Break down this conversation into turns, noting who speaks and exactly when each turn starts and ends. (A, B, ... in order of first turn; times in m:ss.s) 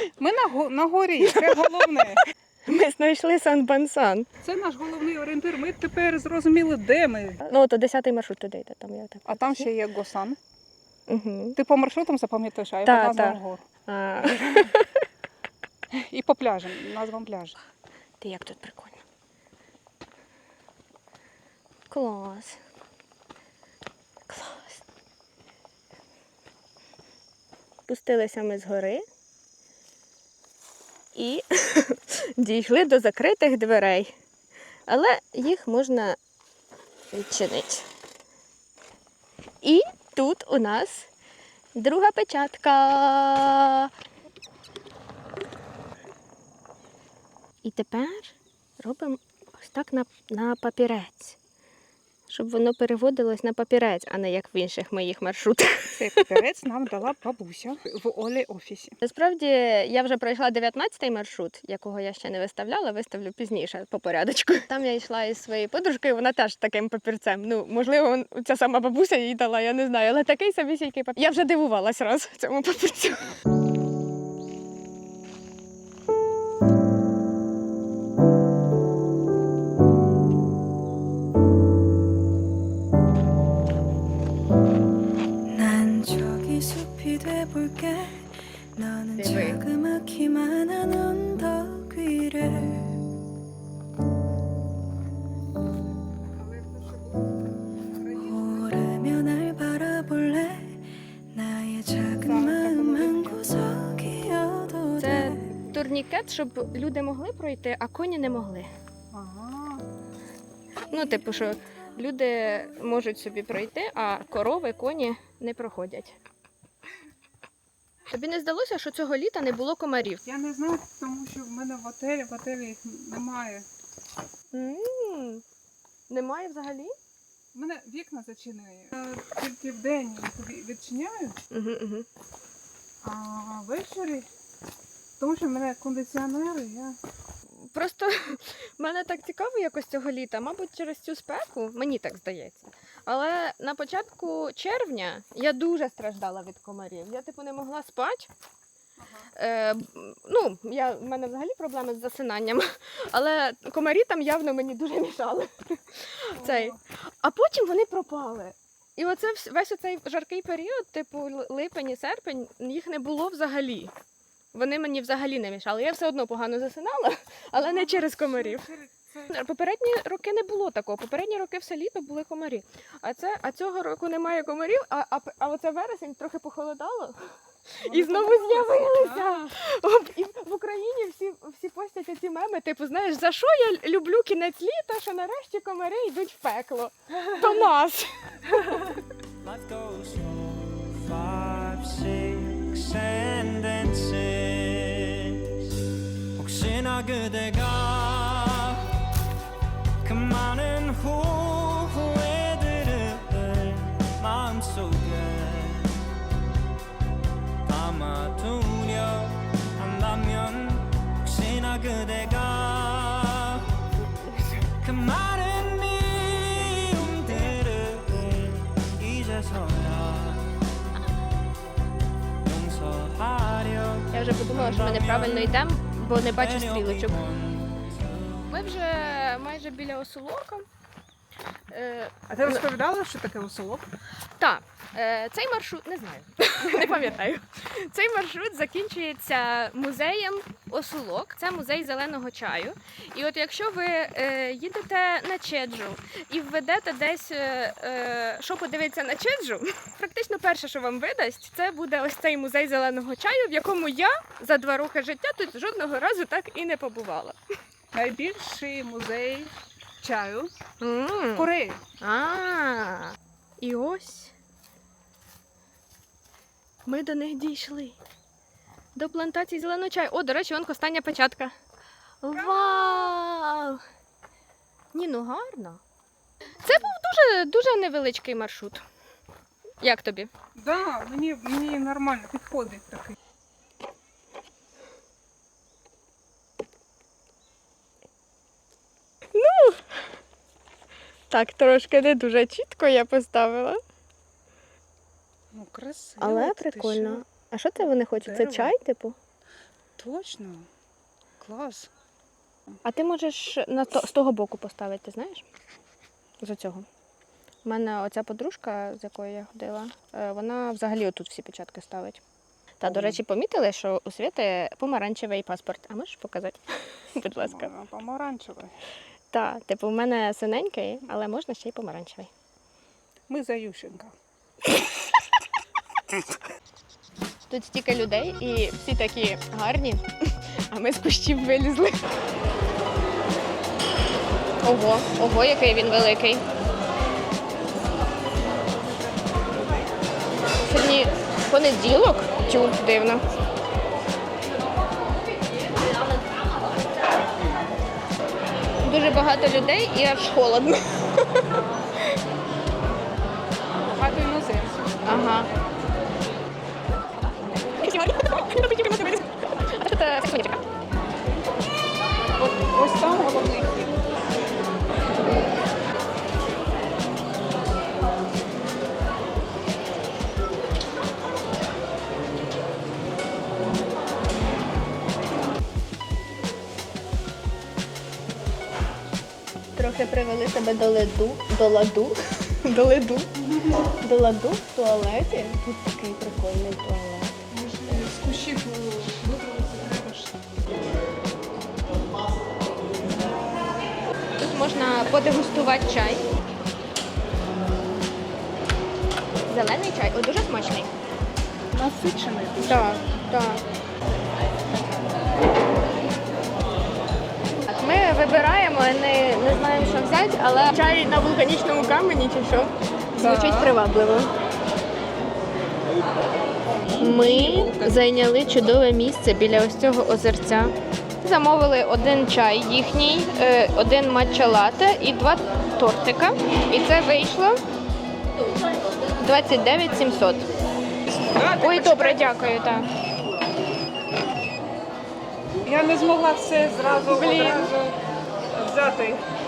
0:00.2-0:02.2 A
0:01.2-0:04.3 B
0:04.4-0:07.4 A
0:07.5-0:09.7 B
0:09.3-0:10.4 A
0:11.1-0:11.6 B
0:11.6-0:13.6 A
0:12.8-0:14.9 B
0:14.2-0:14.7 A
0:15.9-0:17.6 A
0:18.2-0:19.0 B
0:21.9-0:22.6 B
0:24.3-0:24.8 B
0:27.9-0:29.0 B
0:31.2-0:34.1 B
0:34.9-0:36.2 B
0:37.1-0:37.9 B
0:39.6-0:41.1 B
0:41.8-0:43.9 B
0:47.6-0:51.4 B
0:52.3-0:56.3 B
0:56.0-0:59.0 A
0:59.0-1:13.3 B
1:25.5-1:33.0 C
1:29.2-1:29.6 B
1:36.3-1:37.4 A
1:37.9-1:38.7 A
1:38.2-1:45.5 C
1:42.2-1:43.4 A
1:45.0-1:48.7 B
1:45.4-1:45.8 A
1:49.1-1:49.8 A
1:50.9-1:56.2 B
1:58.1-2:00.2 B
2:00.2-2:03.7 A
2:04.5-2:05.4 B
2:06.1-2:07.0 B
2:07.5-2:11.4 A
2:11.5-2:12.1 B
2:13.0-2:14.3 A
2:15.2-2:17.0 A
2:17.7-2:28.3 B
2:29.0-2:29.3 A
2:29.4-2:43.9 B
2:36.4-2:36.8 A
2:44.5-2:48.7 B
2:47.6-2:49.4 A
2:49.3-3:08.1 B
2:57.8-2:59.6 A
3:09.4-3:15.7 D
3:16.4-3:18.9 D
3:20.0-3:26.0 D
3:27.6-3:33.7 D
3:34.8-3:40.5 D
3:42.4-3:48.5 D
3:44.1-3:47.2 B
3:48.5-3:50.6 B
3:51.7-3:52.6 B
3:52.3-3:53.9 A
3:54.4-4:17.4 B
4:17.9-4:20.5 A
4:20.8-4:21.5 B
4:21.4-4:21.8 A
4:22.0-4:24.3 B
4:26.9-4:28.0 B
4:29.0-4:31.5 B
4:32.2-4:33.8 B
4:32.3-4:33.2 A
4:34.9-4:35.8 B
4:36.6-4:38.8 B
4:39.8-4:40.3 B
4:40.6-4:43.2 A
4:49.4-4:49.8 B
4:51.3-4:53.8 B
4:55.5-4:57.2 A
4:56.2-4:59.2 B
4:58.2-4:58.8 A
5:00.0-5:00.7 A
5:01.4-5:01.9 A
5:02.8-5:05.4 B
5:06.4-5:06.9 B
5:07.6-5:12.2 B
5:12.8-5:17.7 B
5:12.9-5:13.2 A
5:17.4-5:18.8 A
5:19.3-5:22.3 B
5:23.3-5:24.1 A
5:27.5-5:32.0 B
5:34.6-5:36.4 B
5:40.6-5:43.2 B
5:48.8-5:51.3 B
5:53.8-5:54.8 A
5:55.0-5:55.5 B
5:57.8-6:00.6 B
6:02.4-6:04.0 A
6:19.8-6:23.3 B
6:24.0-6:27.4 B
6:27.5-6:30.4 A
6:34.4-6:36.3 B
6:39.5-6:40.9 B
6:41.7-6:43.0 A
6:42.6-6:43.6 B
6:47.7-6:54.3 B
6:53.2-6:53.7 A
6:56.9-6:58.0 A
6:57.0-7:07.6 B
7:09.2-7:10.5 B
7:11.0-7:12.3 A
7:11.6-7:12.9 B
7:15.6-7:18.0 A
7:17.1-7:17.7 B
7:18.6-7:19.2 A